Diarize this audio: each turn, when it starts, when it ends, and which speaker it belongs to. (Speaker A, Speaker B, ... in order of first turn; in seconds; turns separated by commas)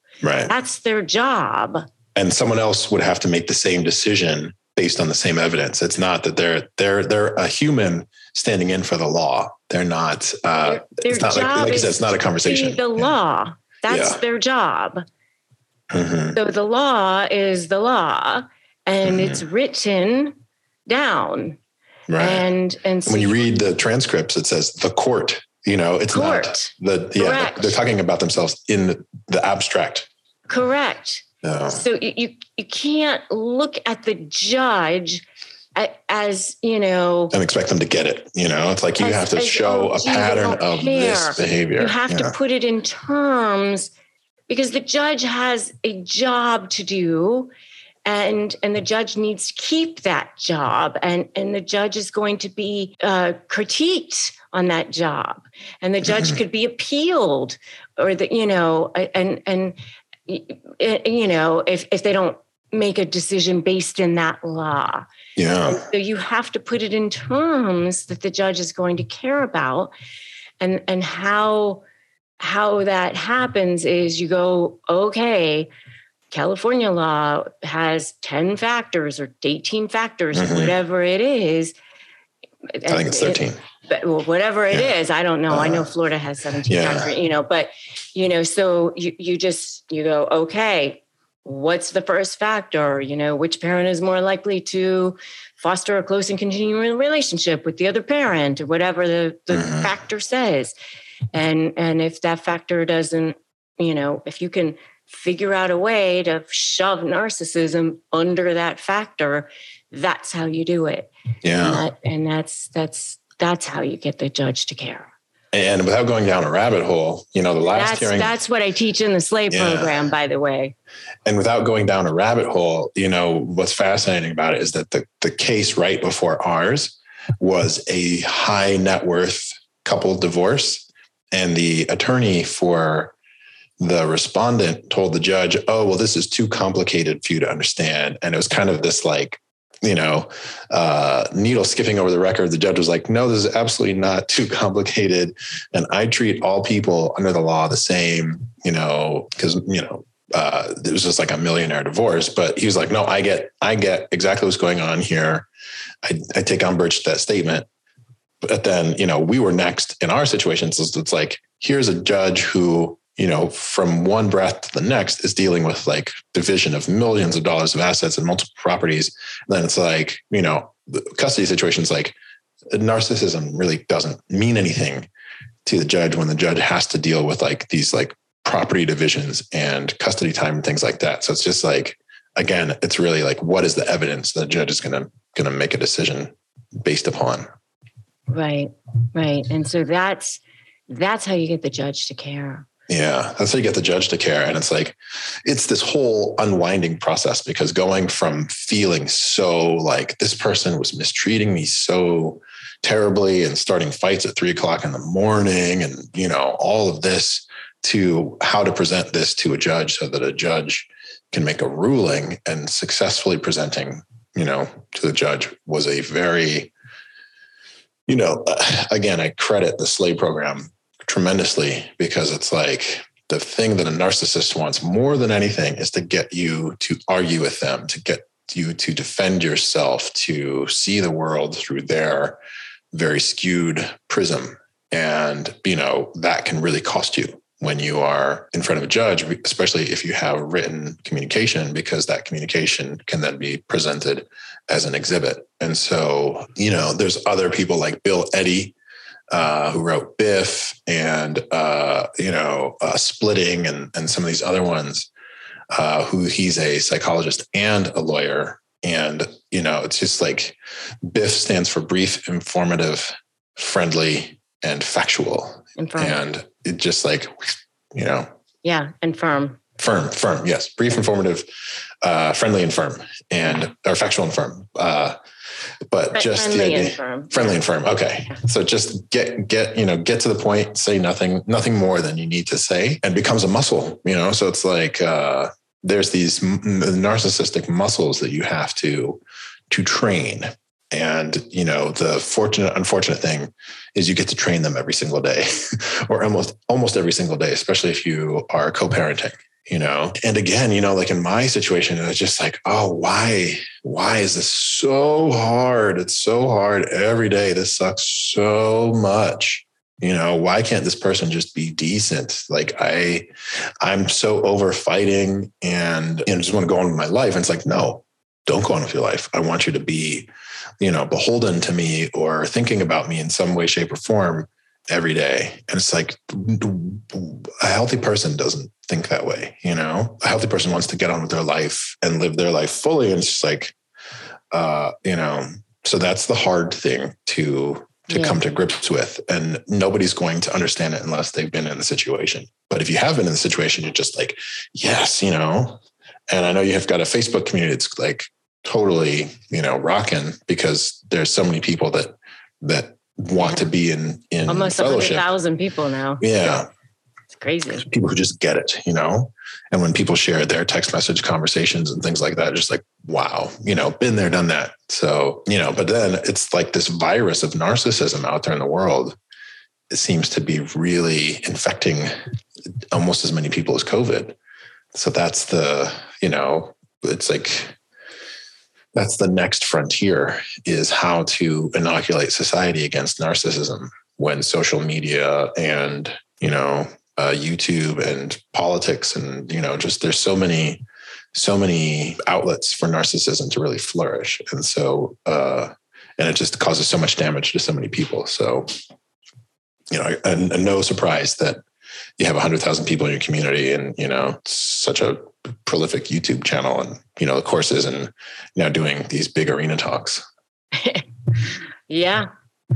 Speaker A: 0.2-0.5, Speaker B: 0.5-1.9, Speaker A: 2.1-13.1, Speaker B: 10.6-15.0, Speaker A: 13.9-14.2, Speaker A: 15.9-16.4, Speaker B: 16.3-20.3, Speaker A: 19.0-19.4, Speaker B: 20.9-21.6, Speaker A: 22.1-22.5, Speaker B: 22.2-23.4, Speaker A: 23.1-30.1, Speaker B: 26.1-27.8, Speaker B: 30.5-35.2, Speaker A: 31.4-31.8, Speaker B: 35.8-37.3, Speaker A: 37.3-42.3, Speaker B: 39.0-43.9, Speaker B: 44.5-47.5, Speaker B: 48.0-59.8, Speaker A: 56.0-56.4, Speaker B: 60.3-65.0, Speaker A: 65.3-65.8, Speaker B: 65.7-69.9, Speaker B: 70.6-71.8, Speaker B: 72.4-75.7, Speaker B: 76.3-81.7, Speaker A: 80.3-80.8, Speaker B: 82.8-100.7, Speaker A: 82.9-83.6, Speaker A: 85.5-85.8, Speaker A: 86.7-87.1, Speaker A: 99.5-99.9, Speaker B: 101.3-115.1, Speaker A: 111.4-111.8, Speaker A: 115.5-118.3, Speaker B: 117.7-120.7, Speaker A: 119.5-120.0, Speaker A: 121.2-133.1, Speaker A: 133.8-155.5, Speaker A: 156.0-157.7, Speaker A: 158.4-172.1, Speaker A: 172.7-175.1, Speaker A: 175.7-187.5, Speaker B: 188.3-192.7, Speaker A: 192.9-216.7, Speaker A: 218.1-232.4, Speaker A: 232.9-248.7, Speaker A: 249.3-255.1, Speaker A: 255.7-268.3, Speaker B: 265.8-266.2, Speaker B: 268.6-269.6, Speaker A: 269.8-275.2, Speaker A: 275.9-313.3, Speaker B: 276.1-277.6, Speaker A: 313.8-320.3, Speaker A: 320.8-333.7, Speaker A: 334.5-355.3, Speaker B: 338.1-338.4, Speaker B: 353.4-353.6, Speaker B: 354.5-356.2, Speaker A: 356.2-356.7, Speaker B: 357.4-357.9, Speaker A: 357.8-369.2, Speaker A: 369.9-372.1, Speaker A: 372.9-374.4, Speaker A: 374.9-377.8, Speaker A: 378.9-390.8, Speaker A: 391.3-398.7, Speaker A: 399.9-401.6, Speaker A: 402.2-410.2, Speaker B: 411.9-412.3